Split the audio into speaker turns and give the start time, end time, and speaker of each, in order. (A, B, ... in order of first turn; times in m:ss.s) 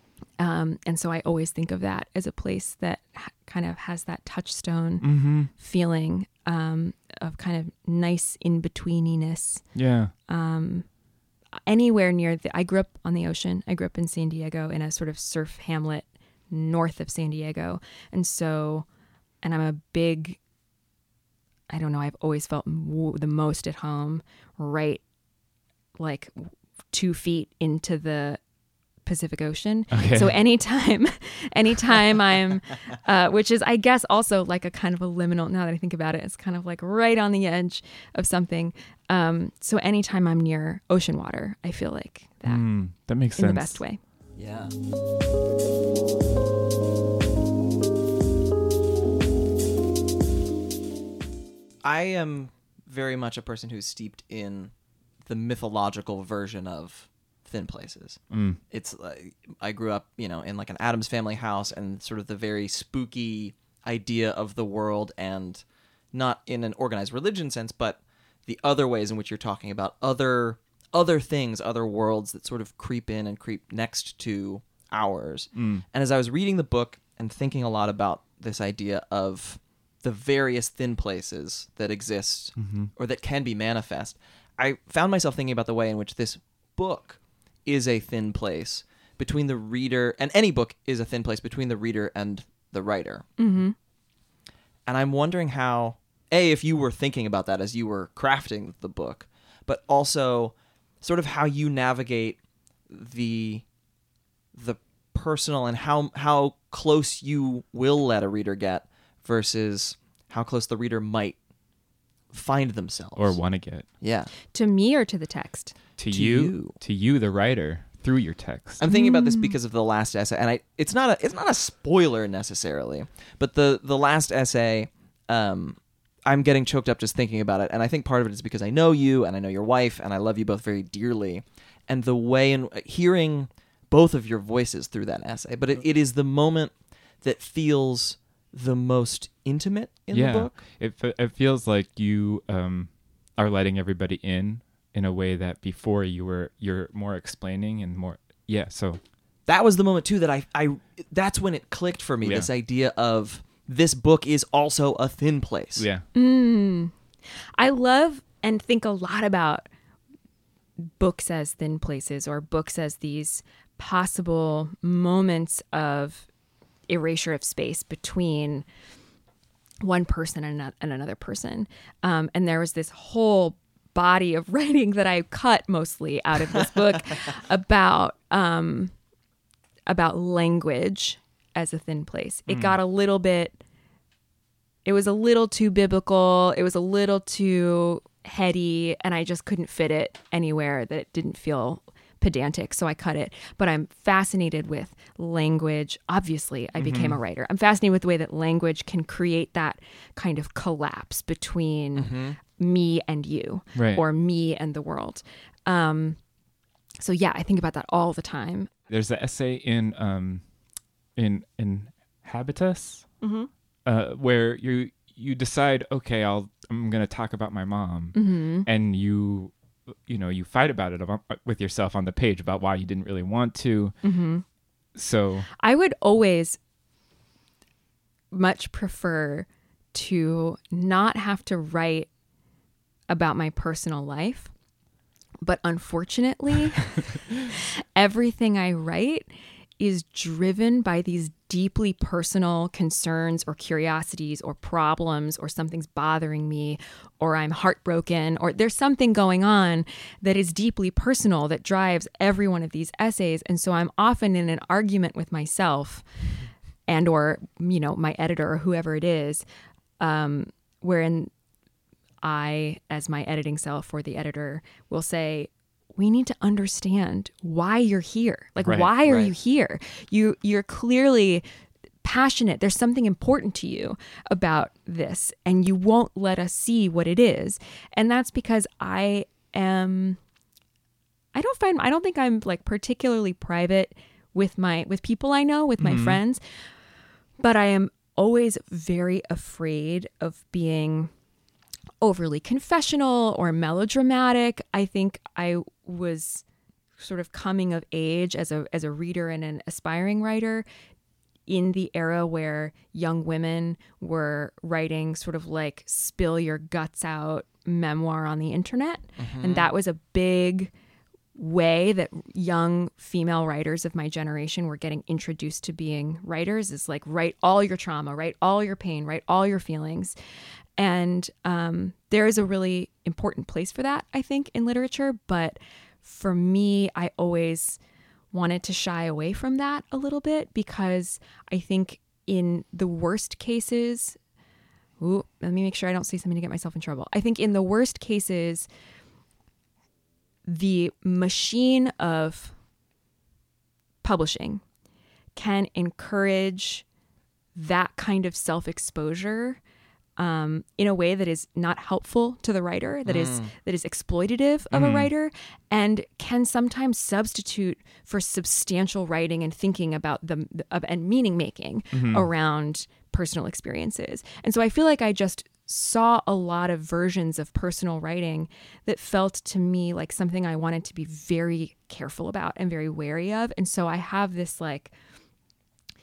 0:00.4-0:09.7 A
0:05.0-0:05.5 B
0:09.7-0:10.1 B
0:10.3-0:10.9 A
0:11.5-0:18.8 A
0:19.4-0:20.4 A
0:21.7-0:25.0 A
0:26.0-0:28.4 A
0:29.0-0:44.0 A
0:29.9-0:30.4 B
0:42.4-0:43.8 B
0:44.4-0:44.8 C
0:51.8-0:54.7 C
0:55.2-1:33.3 C
0:58.3-0:58.6 B
1:15.5-1:15.8 B
1:22.6-1:22.9 B
1:33.4-1:33.7 A
1:34.8-1:43.6 C
1:44.5-1:51.4 C
1:52.3-1:53.4 C
1:53.1-1:53.8 B
1:54.0-1:54.3 C
1:54.5-1:55.8 A
1:56.0-1:58.8 B
1:56.1-1:56.8 C
1:58.8-2:20.6 C
1:58.9-1:59.5 A
2:20.1-2:29.0 B
2:29.4-2:35.9 C
2:32.2-2:32.5 B
2:35.8-2:36.1 B
2:36.1-2:36.9 A
2:37.6-2:39.7 A
2:40.8-2:46.3 A
2:46.9-2:48.6 A
2:49.8-2:58.9 A
2:59.9-3:03.6 A
3:02.5-3:02.8 B
3:04.8-3:26.2 A
3:16.8-3:17.2 B
3:22.0-3:22.4 C
3:23.7-3:24.0 B
3:27.0-3:28.7 A
3:28.9-3:30.4 B
3:31.2-3:33.1 B
3:33.2-3:33.5 A
3:33.8-3:39.5 B
3:38.1-3:38.7 A
3:40.0-3:44.0 B
3:44.0-3:44.4 A
3:44.9-3:45.5 B
3:45.6-3:46.6 A
3:48.3-3:52.1 A
3:53.1-3:54.5 A
3:55.4-4:16.0 A
4:16.9-4:19.4 A
4:20.0-4:21.3 A
4:22.2-4:31.4 A
4:28.6-4:28.9 B
4:29.0-4:29.3 C
4:32.0-4:40.2 A
4:41.3-4:46.6 A
4:45.8-4:46.2 B
4:47.4-4:51.1 A
4:52.0-4:56.4 A
4:57.0-5:00.6 A
5:01.5-5:10.7 A
5:09.2-5:09.7 C
5:11.4-5:20.2 A
5:20.8-5:27.8 A
5:28.3-5:34.2 A
5:35.0-5:38.7 A
5:40.4-5:42.5 A
5:44.0-5:44.6 A
5:45.3-5:46.8 A
5:47.5-5:49.6 A
5:50.2-6:14.9 A
5:53.0-5:53.5 C
5:54.7-5:55.1 B
6:01.9-6:02.2 B